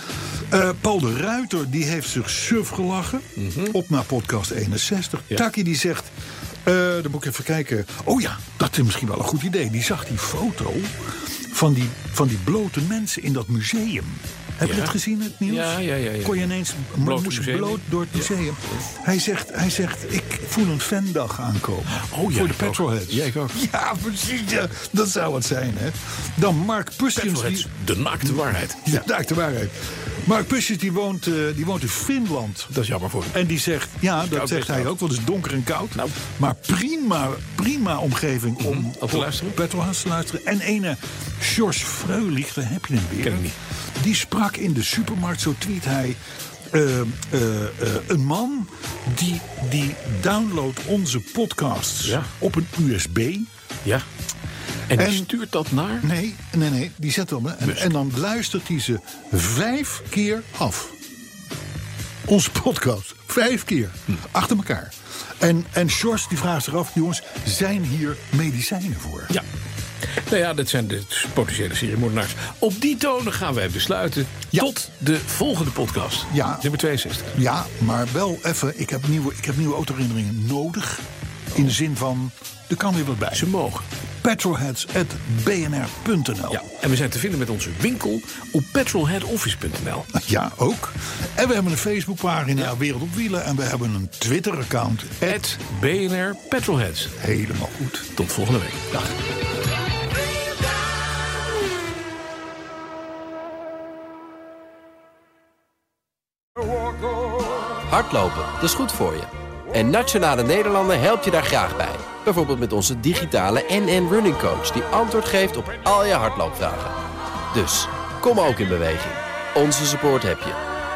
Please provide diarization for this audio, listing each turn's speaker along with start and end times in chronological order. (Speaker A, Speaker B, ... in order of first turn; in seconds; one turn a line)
Speaker A: 0.2-27.7
Speaker B: 3.4-3.7
Speaker B: 14.6-18.3
Speaker B: 21.9-23.6
Speaker B: 27.1-29.0
Speaker A: 28.2-32.7
Speaker B: 32.7-33.4
Speaker A: 33.3-53.5
Speaker B: 34.2-34.9
Speaker B: 38.6-39.6
Speaker B: 43.2-43.5
Speaker B: 52.0-52.3
Speaker B: 54.9-56.1
Speaker A: 54.9-55.3
Speaker A: 56.0-61.0
Speaker A: 62.2-69.3
Speaker B: 70.2-77.3
Speaker A: 76.3-76.6
Speaker A: 77.3-83.5
Speaker B: 83.3-83.8
Speaker A: 84.2-86.6
Speaker B: 86.5-90.1
Speaker A: 90.1-95.4
Speaker B: 95.2-97.2
Speaker A: 97.2-98.1
Speaker B: 98.1-98.9
Speaker C: 107.9-117.0
Speaker C: 117.5-120.6